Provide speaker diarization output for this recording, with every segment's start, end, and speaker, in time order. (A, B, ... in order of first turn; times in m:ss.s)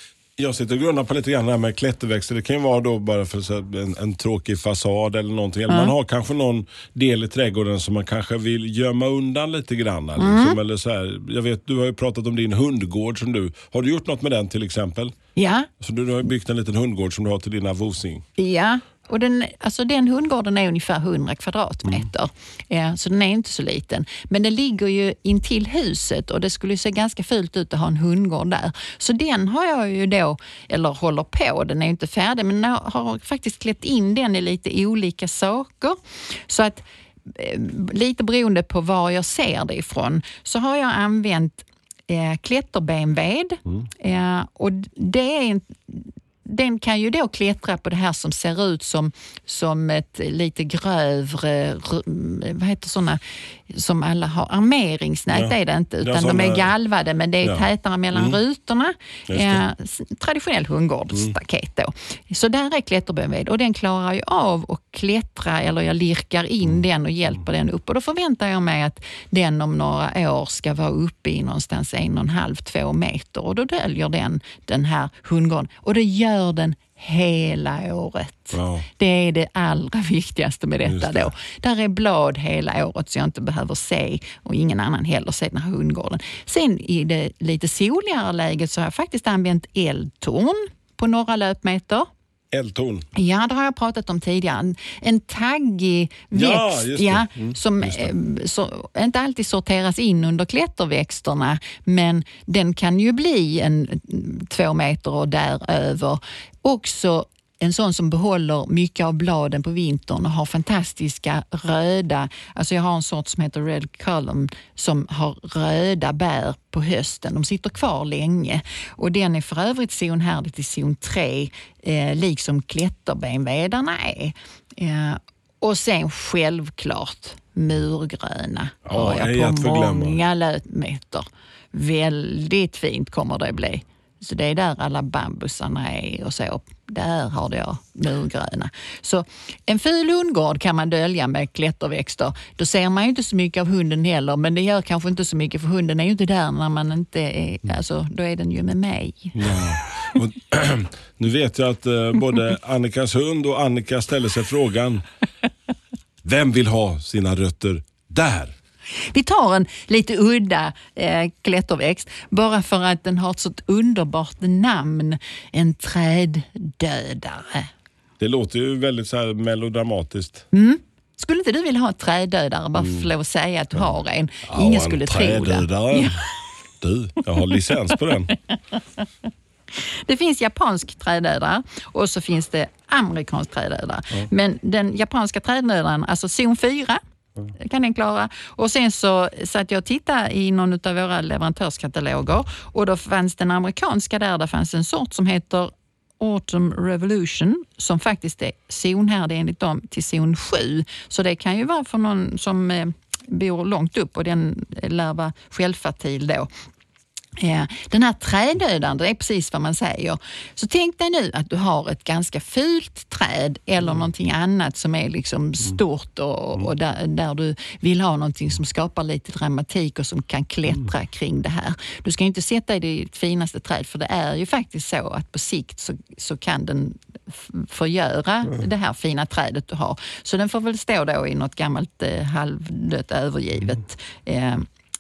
0:00.4-0:15.2 A
0:05.7-0:05.9 B
0:10.2-0:10.6 B
0:15.4-0:15.7 B
0:15.8-0:18.3 A
0:18.4-1:32.1 B
0:55.3-0:56.7 A
0:57.4-0:58.4 A
0:59.3-0:59.6 A
1:18.5-1:18.9 A
1:20.8-1:21.3 A
1:32.5-1:33.1 A
1:33.2-2:29.4 B
1:36.3-1:38.1 A
2:08.8-2:10.2 A
2:29.3-2:35.0 A
2:36.2-2:38.6 A
2:39.0-2:47.7 B
2:48.2-2:50.5 A
2:50.5-2:56.2 B
2:52.8-2:53.1 A
2:54.5-2:56.2 A
2:56.8-2:58.3 A
2:58.3-2:58.6 B
2:59.7-3:07.0 B
3:07.6-3:26.5 B
3:27.4-3:54.7 B